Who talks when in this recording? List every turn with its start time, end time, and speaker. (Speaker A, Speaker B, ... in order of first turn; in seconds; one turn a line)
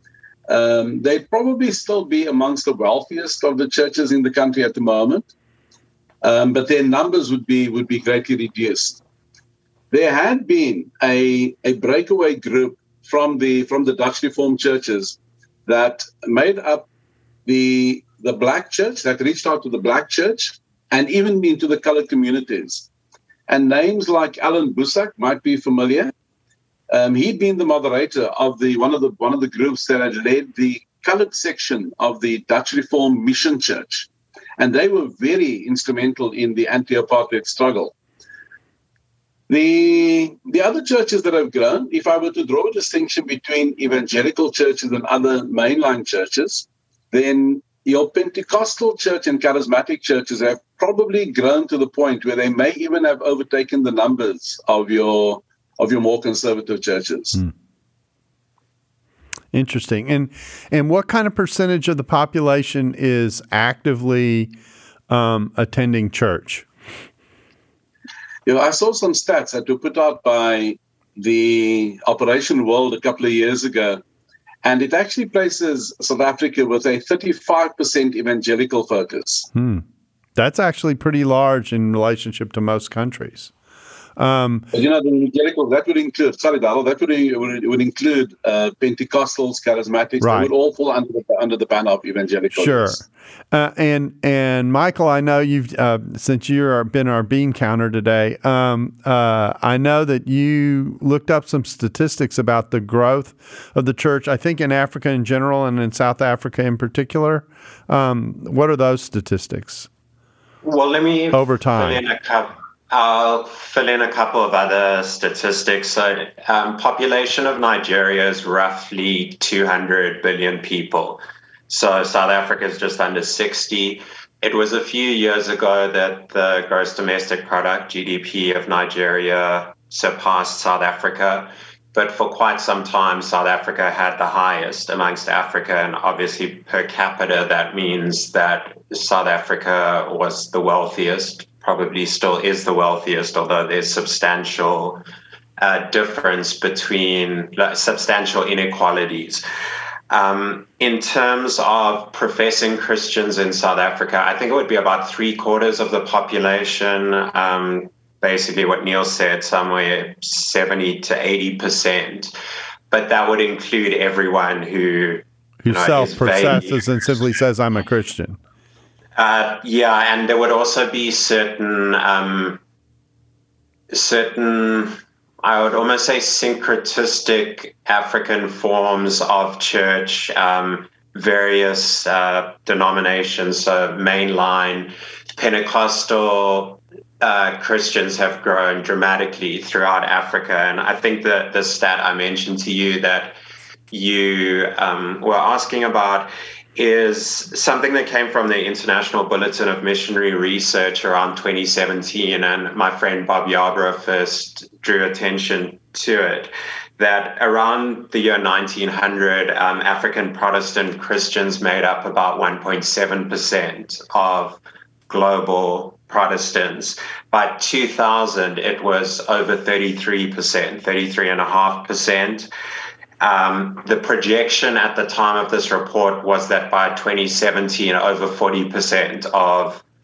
Speaker A: 0.5-5.3
Speaker A: 6.2-9.0
Speaker A: 9.9-16.9
Speaker A: 17.4-22.9
Speaker A: 23.5-26.1
Speaker A: 26.9-37.9
Speaker A: 39.5-57.4
Speaker B: 59.5-64.5
Speaker B: 65.1-66.7
Speaker A: 68.5-74.0
Speaker A: 74.6-79.5
Speaker B: 79.5-79.8
Speaker B: 80.4-83.5
Speaker B: 84.2-84.7
Speaker A: 84.7-93.0
Speaker B: 90.2-90.5
Speaker B: 92.5-109.9
Speaker C: 110.6-145.0
Speaker B: 111.3-112.0
Speaker C: 145.6-149.4
Speaker C: 150.1-162.3
Speaker C: 162.9-166.8
Speaker B: 165.6-168.4
Speaker C: 169.2-172.6
Speaker C: 173.9-193.4
Speaker C: 193.9-222.5
Speaker C: 223.2-229.8